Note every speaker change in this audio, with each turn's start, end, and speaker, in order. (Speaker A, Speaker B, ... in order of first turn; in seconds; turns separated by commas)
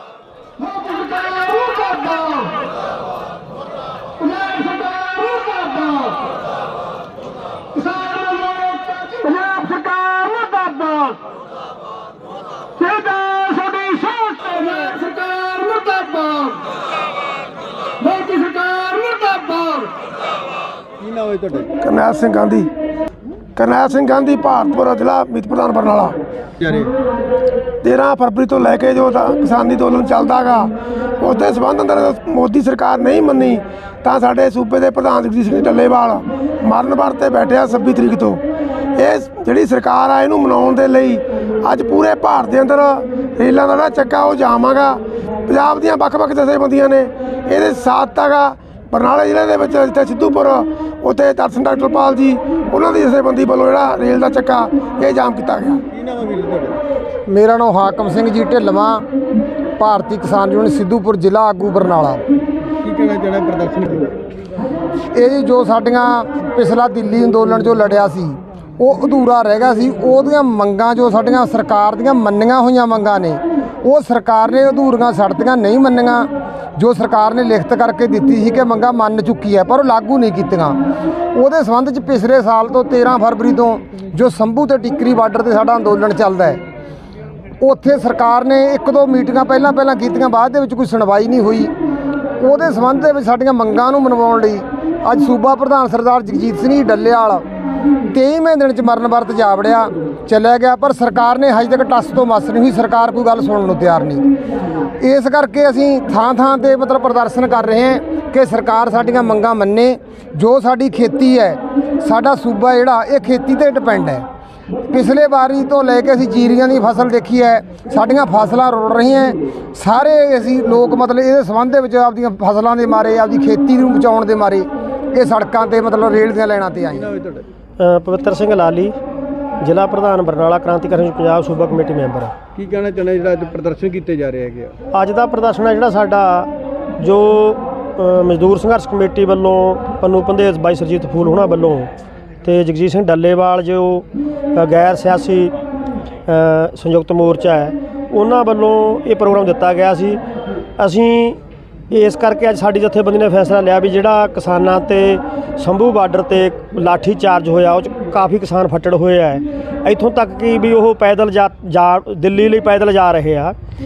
Speaker A: 0.6-2.6, Speaker A: 4.2-6.3, Speaker A: 7.8-11.3, Speaker A: 12.8-16.6, Speaker A: 18.0-19.9, Speaker B: 21.0-21.7, Speaker C: 21.8-22.7, Speaker C: 23.6-26.2, Speaker B: 26.6-26.9, Speaker C: 27.8-38.4, Speaker C: 39.0-55.8, Speaker B: 55.9-56.8, Speaker D: 57.3-59.0, Speaker D: 59.8-62.2, Speaker B: 62.8-64.2, Speaker D: 65.1-80.8, Speaker D: 81.3-86.6, Speaker D: 87.6-91.7, Speaker D: 92.4-97.5, Speaker D: 98.1-104.2, Speaker D: 105.0-114.2, Speaker D: 114.9-127.1, Speaker B: 127.0-127.5, Speaker E: 127.8-128.9, Speaker E: 129.6-132.3, Speaker B: 132.6-134.7, Speaker E: 134.9-141.9, Speaker E: 142.4-145.5, Speaker E: 146.3-150.2, Speaker E: 150.8-151.4, Speaker E: 151.9-163.6